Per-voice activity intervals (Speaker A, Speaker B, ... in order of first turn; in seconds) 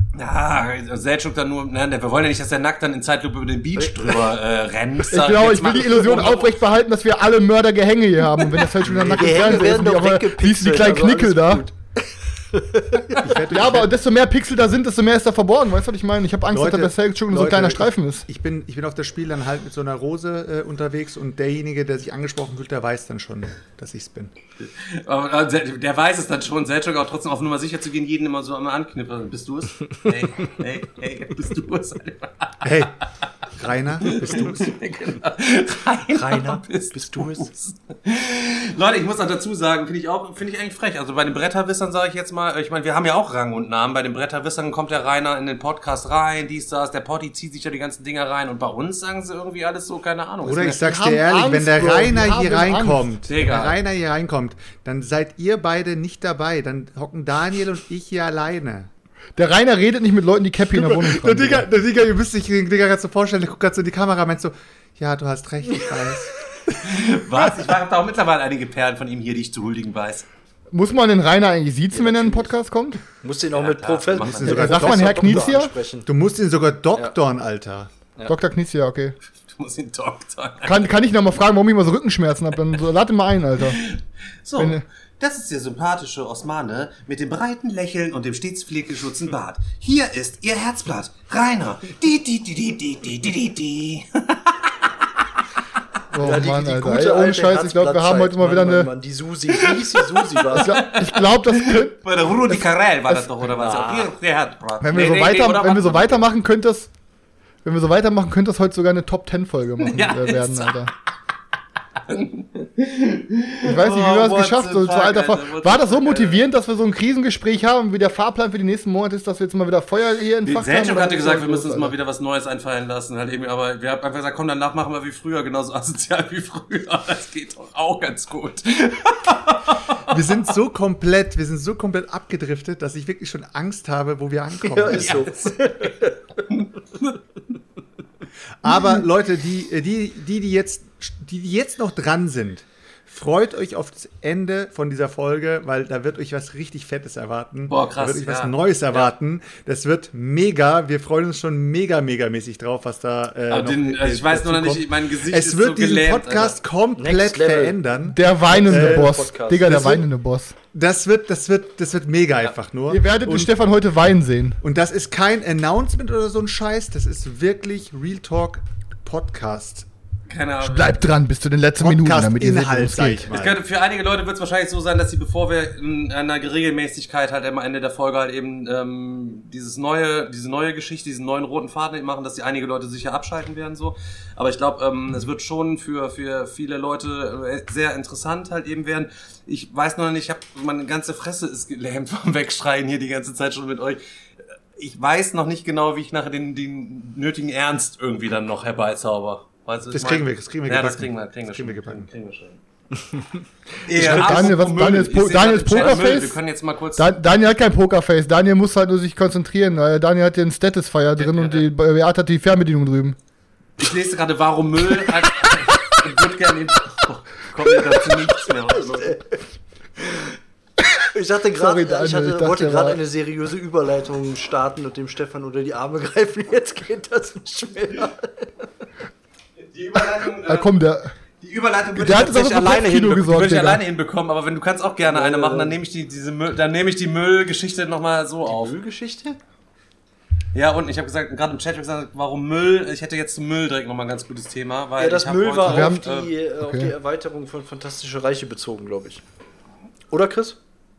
Speaker A: 0.1-6.5, 24.6-32.7, 34.0-50.9, 53.3-53.8, 66.8-70.3, 73.5-74.8, 79.5-80.9, 83.7-94.7, 99.6-106.3, 109.8-110.9, 112.0-116.4, 120.5-130.2, 134.9-135.9, 136.5-137.2, 147.7-149.1, 153.5-156.6, 170.3-171.2, 173.3-194.0, 194.8-202.6, 203.8-207.2, 211.2-211.7, 213.8-219.2, 229.6-230.7, 231.4-238.8, 240.5-246.3
Speaker B: 3.8-4.2, 8.6-13.3, 36.1-37.5, 71.9-72.5, 73.1-76.1, 96.2-100.9, 103.6-104.1, 134.7-136.2, 157.0-157.8, 158.4-159.9, 204.0-204.7, 218.5-219.4, 220.0-220.4, 221.1-228.7, 235.1-235.8, 238.4-239.4, 245.0-249.2, 250.1-250.6
Speaker C: 5.1-11.6, 13.5-18.2, 50.8-53.1, 59.4-61.7, 70.7-73.0, 74.4-75.7, 78.3-79.2, 80.6-83.8, 84.6-84.8, 96.1-98.9, 100.5-103.2, 104.8-106.9, 107.6-110.9, 113.7-122.0, 158.1-160.6, 162.9-164.6, 170.6-173.3, 204.0-206.4, 207.0-213.2, 221.6-223.0, 230.4-231.1, 231.9-233.8, 245.7-246.1, 246.6-246.9
Speaker D: 8.8-9.6, 13.2-13.9, 16.5-24.3, 32.6-32.9, 33.5-34.7, 50.4-58.9, 60.7-67.5, 74.2-77.9, 130.1-135.3, 138.6-160.1, 160.7-163.5, 164.6-169.9, 171.8-173.6, 199.9-202.1